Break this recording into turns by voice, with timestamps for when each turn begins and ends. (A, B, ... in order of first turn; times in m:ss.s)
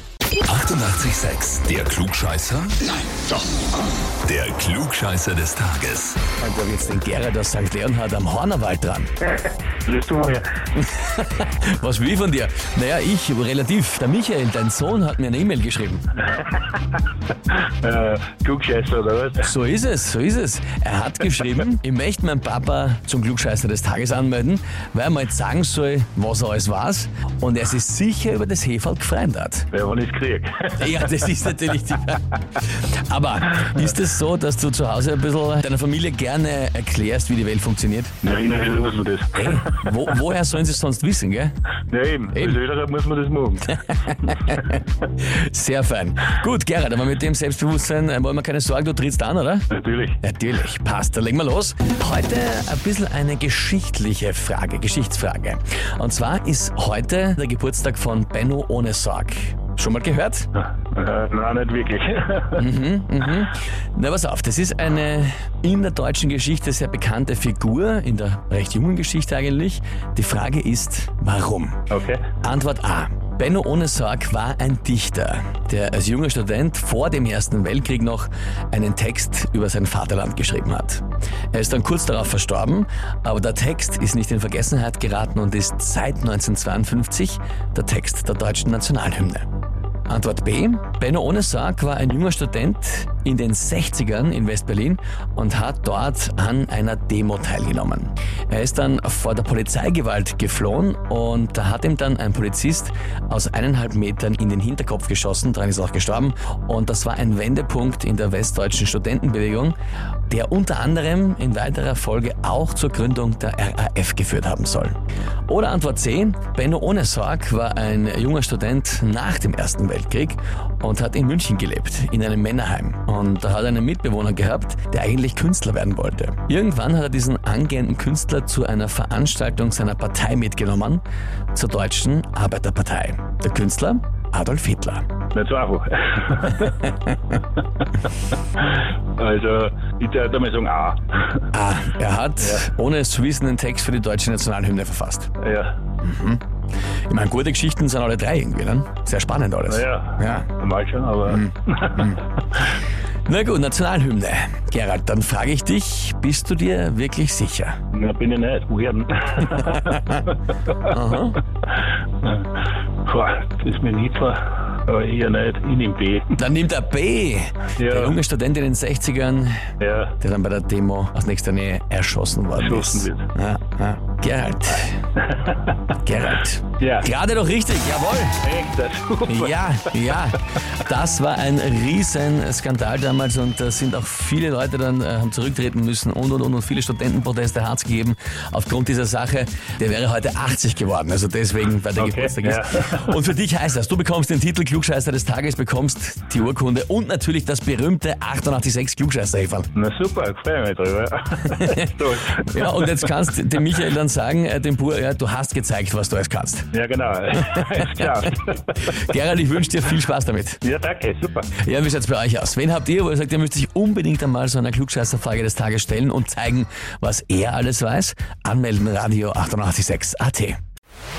0:00.4-0:03.3 A
0:04.2-0:06.2 A
0:06.4-0:09.1 B
0:09.8-0:10.7 C
0:10.8-0:16.0 B
0:16.3-0:19.5 C
0:19.4-0:29.7 B
0:29.7-0:31.2 C
0:30.7-0:38.1 B
0:38.2-0:39.8 C
0:39.3-0:41.5 B
0:41.9-0:43.7 C
0:42.3-0:42.6 B
0:43.6-0:49.7 B
0:49.7-0:50.2 C
0:50.2-1:00.5 B
1:00.8-1:02.6 C
1:02.6-1:11.8 B
1:11.9-1:12.2 C
1:12.4-1:29.5 B
1:30.1-1:49.8 B
1:50.3-1:55.0 B
1:55.5-2:11.0 B
2:11.5-2:15.0 B
2:15.3-2:16.9 C
2:16.6-2:17.2 B
2:18.6-2:21.4 C
2:21.5-2:25.3 B
2:25.4-2:25.8 C
2:26.0-2:26.4 B
2:27.1-2:30.5 B
2:29.7-2:32.6 C
2:31.3-2:32.2 B
2:33.2-2:37.8 B
2:37.9-2:40.8 C
2:39.6-2:40.2 B
2:40.8-2:41.4 B
2:41.7-2:42.5 C
2:43.0-2:46.4 C
2:46.4-2:55.0 B
2:47.8-2:48.2 C
2:49.8-2:50.2 C
2:52.6-2:53.2 C
2:55.2-2:55.8 C
2:55.9-2:58.4 B
2:56.8-2:57.1 C
2:58.4-2:59.9 C
2:59.2-3:19.7 B
3:12.0-3:13.1 C
3:19.7-3:23.1 C
3:21.5-3:26.7 B
3:26.7-3:29.0 C
3:27.4-3:30.6 B
3:30.6-3:31.5 C
3:31.5-3:40.6 B